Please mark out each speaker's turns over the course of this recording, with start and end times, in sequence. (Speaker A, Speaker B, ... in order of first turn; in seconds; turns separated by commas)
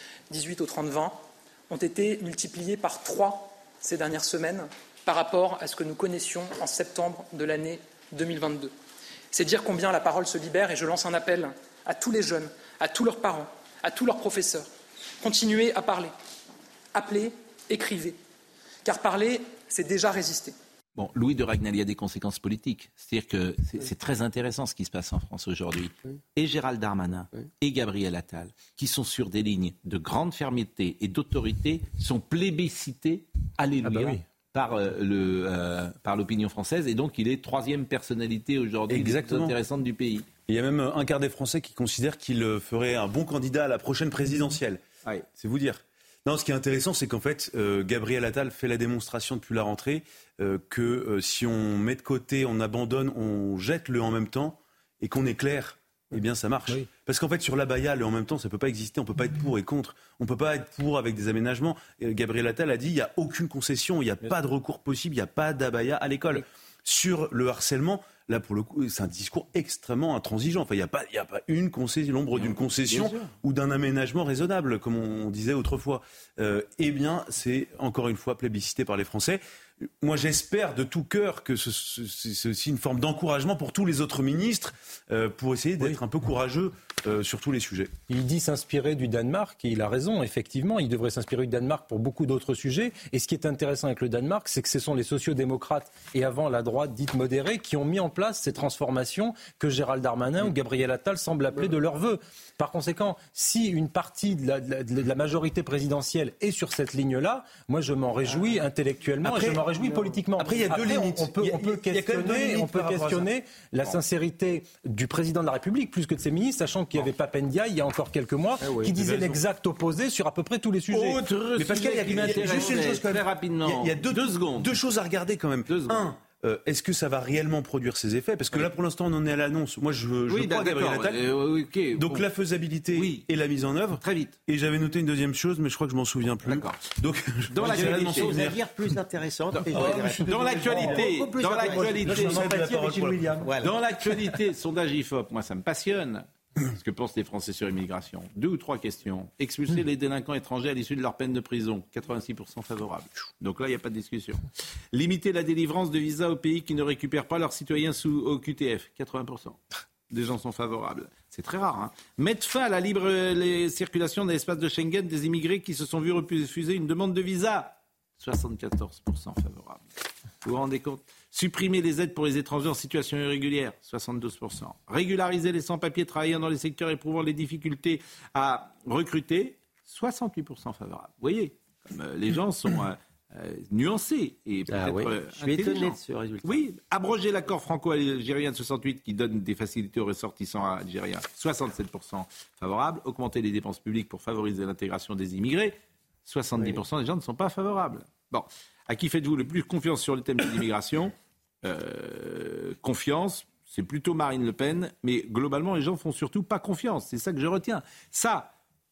Speaker A: 0.3-8.7, Speaker A: 9.3-14.7, Speaker A: 15.2-16.1, Speaker A: 16.9-18.2, Speaker A: 18.8-20.6, Speaker B: 20.9-40.3, Speaker C: 33.8-34.2, Speaker D: 38.9-39.6, Speaker D: 40.5-44.8, Speaker D: 45.3-79.4, Speaker B: 72.4-73.3, Speaker D: 80.0-87.9, Speaker C: 88.1-121.2, Speaker D: 109.2-113.3, Speaker E: 118.6-119.0, Speaker D: 118.9-119.4, Speaker B: 120.9-124.8, Speaker D: 121.5-131.2, Speaker B: 125.7-126.1, Speaker B: 130.3-132.3, Speaker D: 131.9-138.6, Speaker B: 132.9-133.3, Speaker B: 134.0-134.4, Speaker B: 136.4-136.8, Speaker B: 137.5-138.6, Speaker E: 137.6-142.1, Speaker B: 139.5-142.4, Speaker D: 139.7-143.5, Speaker C: 141.4-143.4, Speaker E: 143.4-143.8, Speaker B: 143.6-169.8, Speaker B: 170.4-208.5, Speaker E: 184.7-186.7